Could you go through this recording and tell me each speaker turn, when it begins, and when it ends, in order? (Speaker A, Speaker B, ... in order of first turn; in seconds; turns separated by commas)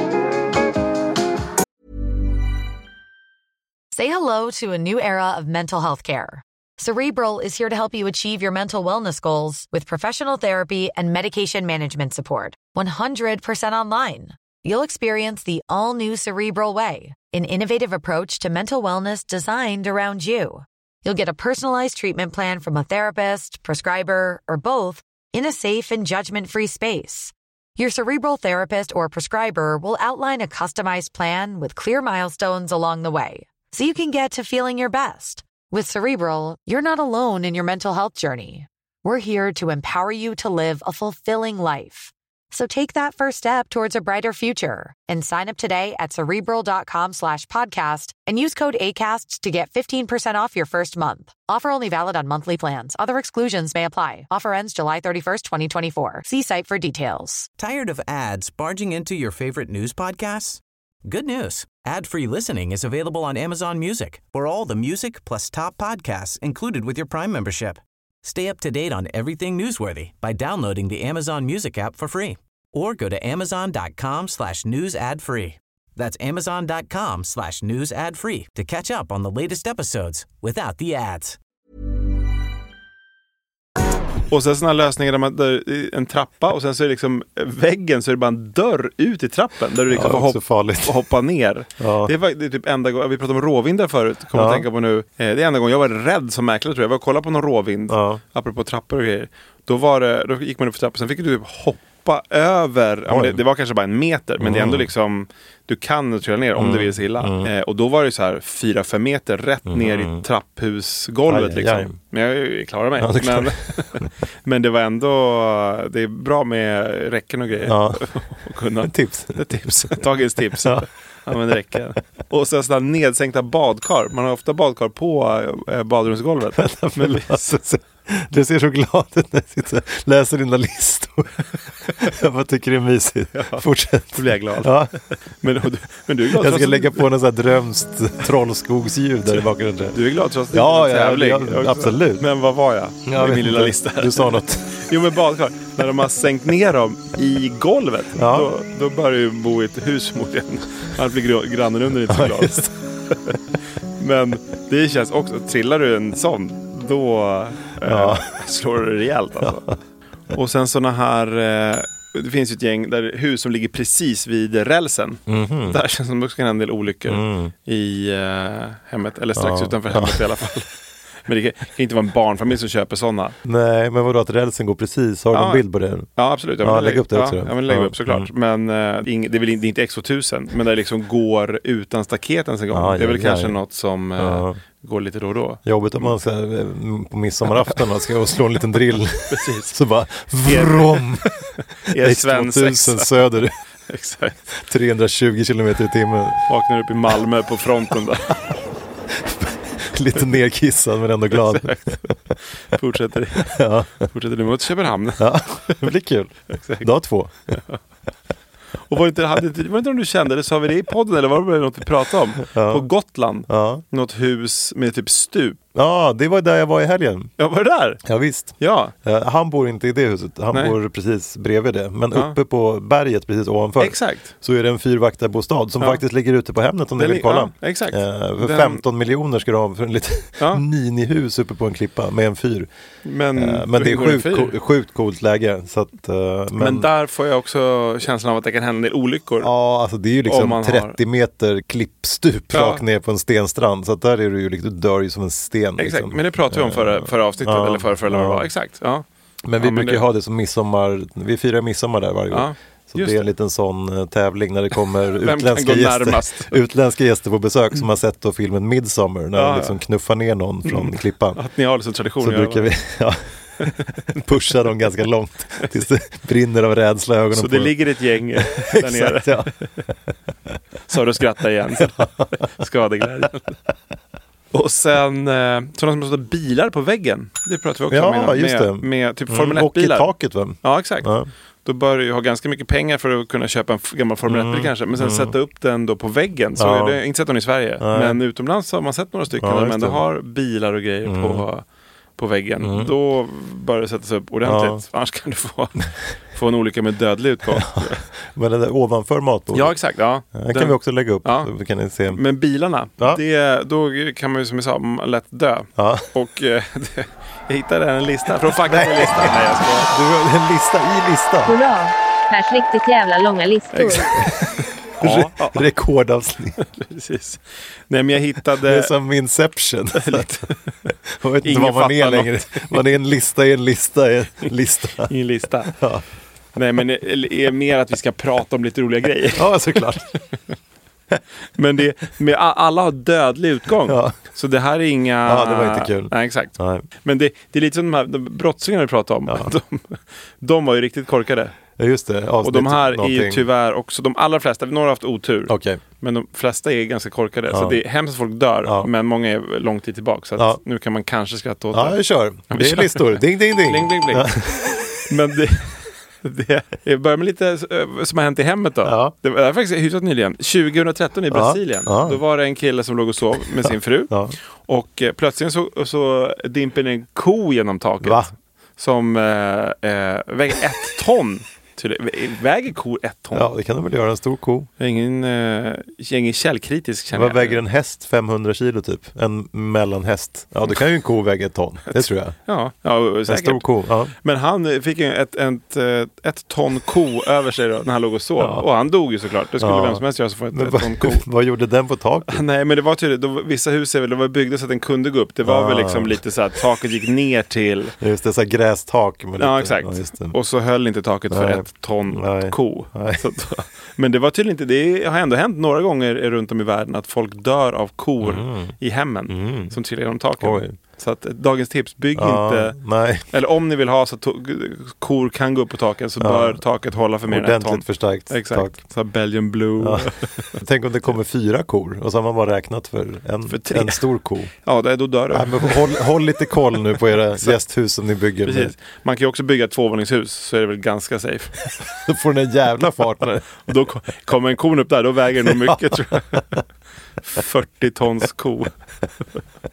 Speaker A: 3.9-57.5, Speaker B: 57.6-81.4, Speaker C: 84.3-127.5, Speaker D: 89.9-91.0, Speaker D: 91.8-92.1, Speaker D: 94.3-94.7, Speaker D: 97.9-98.2, Speaker D: 103.1-103.4, Speaker D: 104.4-104.9, Speaker D: 106.6-107.5, Speaker D: 109.7-110.2, Speaker D: 111.3-112.0, Speaker D: 113.0-114.1, Speaker D: 117.7-118.1, Speaker D: 118.8-120.0, Speaker D: 126.6-134.9, Speaker C: 133.3-134.8, Speaker C: 135.4-137.1, Speaker D: 136.3-140.0, Speaker C: 139.3-153.4, Speaker D: 140.5-142.2, Speaker D: 143.1-144.8, Speaker D: 148.2-148.5, Speaker D: 152.1-152.7, Speaker C: 154.0-159.7, Speaker D: 157.8-158.3, Speaker D: 159.5-159.7, Speaker C: 160.3-170.7, Speaker D: 165.3-165.8, Speaker D: 167.1-167.5, Speaker D: 169.4-170.2, Speaker C: 171.2-173.4, Speaker D: 173.4-176.1, Speaker C: 175.3-175.6, Speaker C: 176.2-186.1, Speaker D: 176.6-178.3, Speaker D: 182.7-183.6, Speaker D: 184.2-184.6, Speaker D: 185.7-191.3, Speaker C: 187.6-187.8, Speaker C: 189.3-189.8, Speaker C: 190.4-193.1, Speaker D: 191.9-193.6, Speaker C: 193.9-194.4, Speaker D: 194.5-196.4, Speaker C: 196.5-198.3, Speaker D: 199.1-202.3, Speaker C: 201.3-205.9, Speaker D: 203.4-204.1, Speaker D: 205.2-207.6, Speaker C: 206.5-206.9, Speaker C: 207.5-207.8, Speaker C: 208.8-215.6, Speaker D: 212.4-212.9, Speaker D: 213.5-213.8, Speaker D: 215.8-217.3, Speaker C: 217.4-218.0, Speaker D: 218.1-232.7, Speaker C: 218.6-218.9, Speaker C: 223.8-224.3, Speaker C: 227.0-228.8, Speaker C: 233.0-234.6, Speaker D: 233.3-236.9, Speaker C: 236.6-239.5, Speaker D: 239.4-248.5, Speaker C: 240.2-241.0, Speaker C: 242.5-242.8, Speaker C: 245.8-249.1, Speaker D: 249.5-261.4, Speaker C: 249.6-250.0, Speaker C: 252.3-253.3, Speaker C: 255.2-256.6, Speaker C: 259.3-259.8, Speaker C: 260.7-262.7, Speaker D: 262.2-267.8, Speaker C: 267.3-269.7, Speaker D: 268.4-269.5, Speaker C: 270.9-273.6, Speaker D: 271.9-272.3, Speaker C: 274.5-281.1, Speaker D: 277.9-281.3, Speaker C: 281.6-291.6, Speaker D: 284.3-285.4, Speaker D: 286.6-287.0, Speaker D: 287.8-288.2, Speaker D: 289.4-290.0, Speaker D: 291.1-291.4, Speaker C: 292.2-298.0, Speaker D: 292.6-292.9, Speaker D: 294.4-294.8, Speaker D: 297.6-299.8, Speaker C: 299.5-301.5, Speaker D: 300.3-302.2, Speaker C: 302.1-309.9, Speaker D: 305.8-306.1, Speaker D: 308.6-311.6, Speaker E: 311.5-314.2, Speaker C: 313.7-315.6, Speaker D: 314.2-314.5, Speaker D: 315.0-316.6, Speaker C: 316.6-318.9, Speaker D: 318.6-320.3, Speaker C: 319.9-320.9, Speaker D: 321.2-325.1, Speaker C: 321.4-322.8, Speaker C: 325.0-325.7, Speaker D: 325.7-326.0, Speaker C: 326.6-329.8, Speaker D: 329.4-330.1, Speaker C: 331.6-341.6, Speaker D: 333.9-334.2, Speaker D: 335.3-336.9, Speaker D: 339.3-339.5, Speaker D: 341.8-343.4, Speaker C: 342.4-354.4, Speaker D: 345.5-345.8, Speaker D: 347.5-347.8, Speaker D: 348.6-348.9, Speaker D: 351.7-354.8, Speaker C: 355.0-368.2, Speaker D: 358.8-359.1, Speaker D: 361.3-362.2, Speaker D: 364.1-364.4, Speaker D: 368.0-368.3, Speaker C: 368.8-373.5, Speaker D: 373.3-374.7, Speaker C: 374.8-377.6, Speaker D: 377.1-382.4, Speaker C: 381.9-391.2, Speaker D: 383.3-384.1, Speaker D: 388.4-388.7, Speaker D: 389.6-392.4, Speaker C: 392.3-398.0, Speaker D: 395.4-396.2, Speaker D: 398.0-400.4, Speaker C: 399.4-412.8, Speaker D: 401.3-403.3, Speaker D: 408.2-408.8, Speaker D: 409.3-409.8, Speaker D: 410.4-410.8, Speaker D: 412.2-413.3, Speaker C: 413.3-420.6, Speaker D: 416.2-416.6, Speaker D: 417.3-418.8, Speaker D: 419.8-424.5, Speaker C: 423.5-425.9, Speaker D: 425.3-428.8, Speaker C: 428.4-431.7, Speaker D: 432.0-433.6, Speaker C: 433.6-436.5, Speaker D: 435.6-436.6, Speaker C: 437.3-438.7